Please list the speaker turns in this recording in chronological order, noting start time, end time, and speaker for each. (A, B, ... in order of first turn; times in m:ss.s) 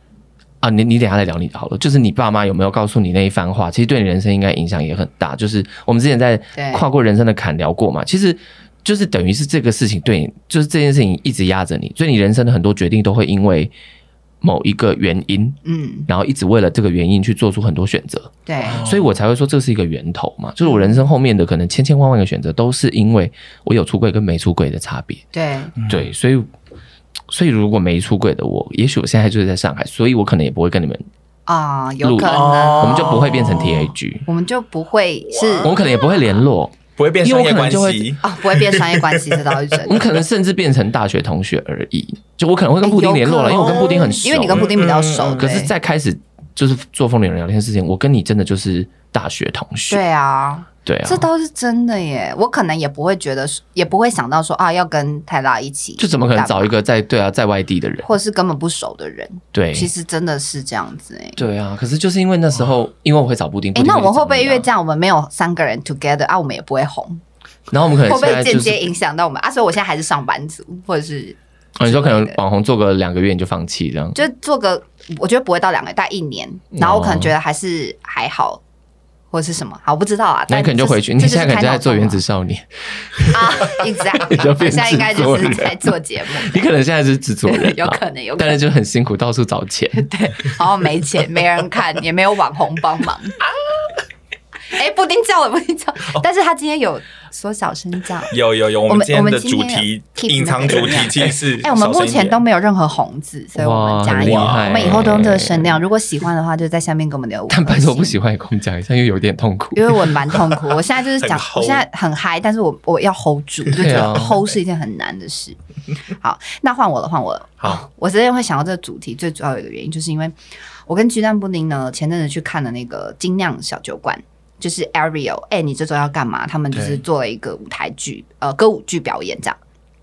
0:00.6-0:13.7 A
0:06.5-0:06.8 B
0:14.4-0:25.2 A
0:15.6-0:16.1 B
0:18.4-0:18.8 B
0:18.6-0:19.1 C
0:20.6-0:21.0 B
0:25.3-0:25.7 B
0:25.8-0:26.1 C
0:25.9-0:26.5 A
0:27.3-0:31.0 A
0:31.5-0:33.5 B
0:32.0-0:34.2 A
0:32.2-0:33.9 C
0:34.3-0:35.7 B
0:35.2-0:36.0 C
0:35.6-0:38.2 A
0:37.0-0:39.3 C
0:38.2-0:40.0 B
0:39.8-0:44.7 A
0:42.8-0:45.7 B
0:43.6-0:45.5 C
0:45.2-0:50.0 A
0:49.9-0:56.7 B
0:50.8-0:51.3 A
0:56.0-0:58.1 A
0:58.0-1:01.4 B
0:59.5-0:59.9 A
1:01.4-1:04.7 A
1:03.7-1:07.2 B
1:07.7-1:08.9 A
1:08.0-1:12.4 B
1:11.8-1:14.2 A
1:14.1-1:18.6 B
1:16.7-1:17.3 A
1:19.3-1:22.2 B
1:20.5-1:30.0 A
1:23.3-1:26.6 B
1:27.4-1:28.6 B
1:29.9-1:33.4 B
1:34.7-1:38.3 B
1:38.3-1:42.4 C
1:38.9-1:48.1 B
1:43.6-1:45.8 A
1:44.1-1:45.0 C
1:47.5-1:50.1 A
1:49.7-1:55.6 B
1:51.2-1:51.8 C
1:53.7-1:54.4 A
1:56.2-2:00.3 B
2:00.9-2:09.6 B
2:06.7-2:07.0 C